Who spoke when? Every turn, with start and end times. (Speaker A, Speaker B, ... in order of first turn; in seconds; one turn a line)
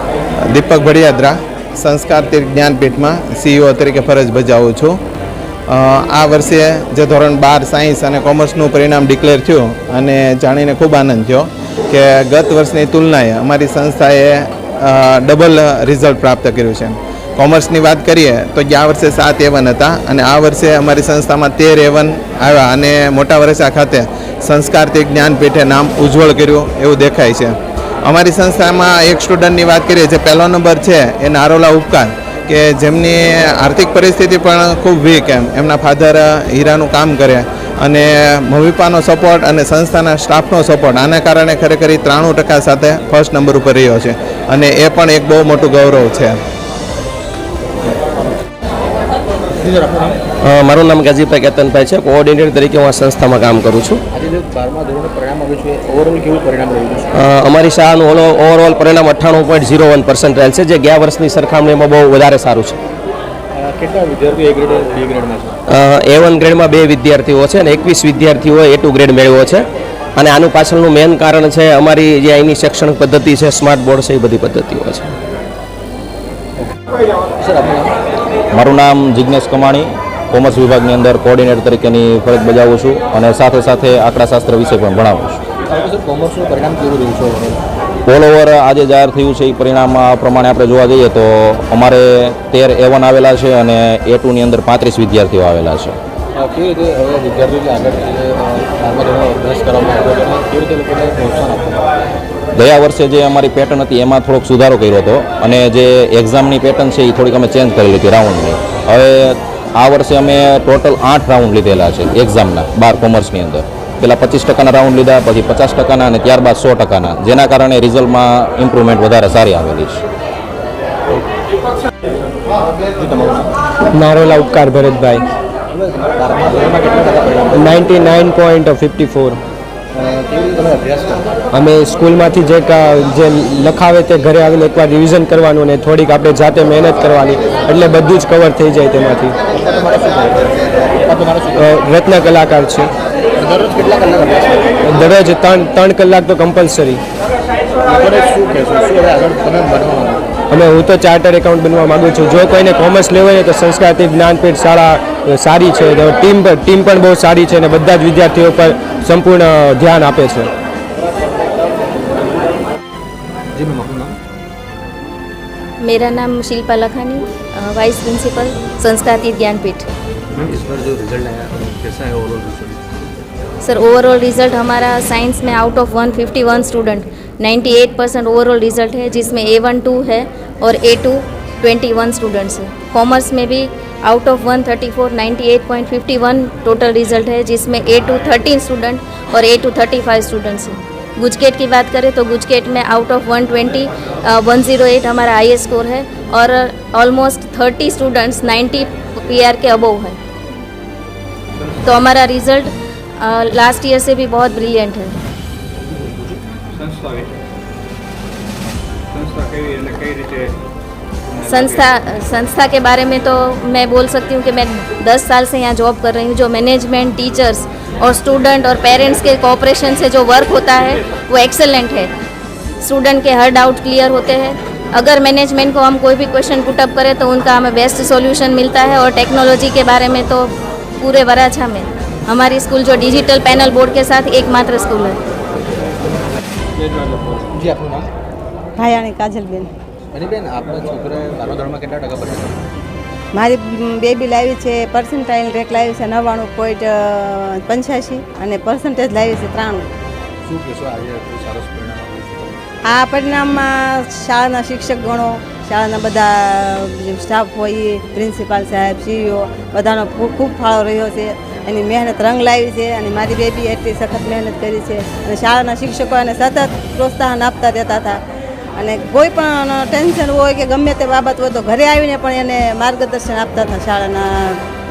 Speaker A: 0.5-5.0
Speaker A: 5.7-46.4
Speaker B: 49.8-50.1
Speaker C: 50.4-54.0
Speaker B: 54.1-57.1
Speaker C: 57.1-62.7
Speaker B: 63.5-65.5
Speaker C: 65.7-69.6
Speaker C: 70.2-75.1
Speaker B: 77.4-77.9
Speaker D: 78.5-85.4
Speaker B: 85.7-87.6
Speaker D: 88.0-96.0
Speaker B: 96.3-101.9
Speaker D: 102.5-120.0
Speaker B: 122.8-123.5
Speaker E: 123.9-125.2
Speaker B: 125.7-127.9
Speaker E: 127.5-129.4
Speaker B: 129.9-131.3
Speaker E: 131.5-139.3
Speaker B: 139.5-141.7
Speaker E: 141.6-142.9
Speaker B: 143.3-144.8
Speaker E: 144.8-147.0
Speaker B: 147.8-150.4
Speaker E: 150.5-160.5
Speaker B: 163.5-164.2
Speaker F: 165.8-169.9
Speaker B: 170.3-172.8
Speaker F: 173.6-200.2
Speaker F: 201.8-205.2
Speaker F: 211.4-222.1
Speaker F: 222.8-230.5
Speaker F: 231.0-235.2
Speaker B: 237.5-238.1
Speaker G: 238.8-239.7
Speaker B: 240.1-242.6
Speaker G: 243.3-249.8
Speaker B: 250.4-252.6
Speaker G: 252.9-268.2
Speaker G: 268.8-274.3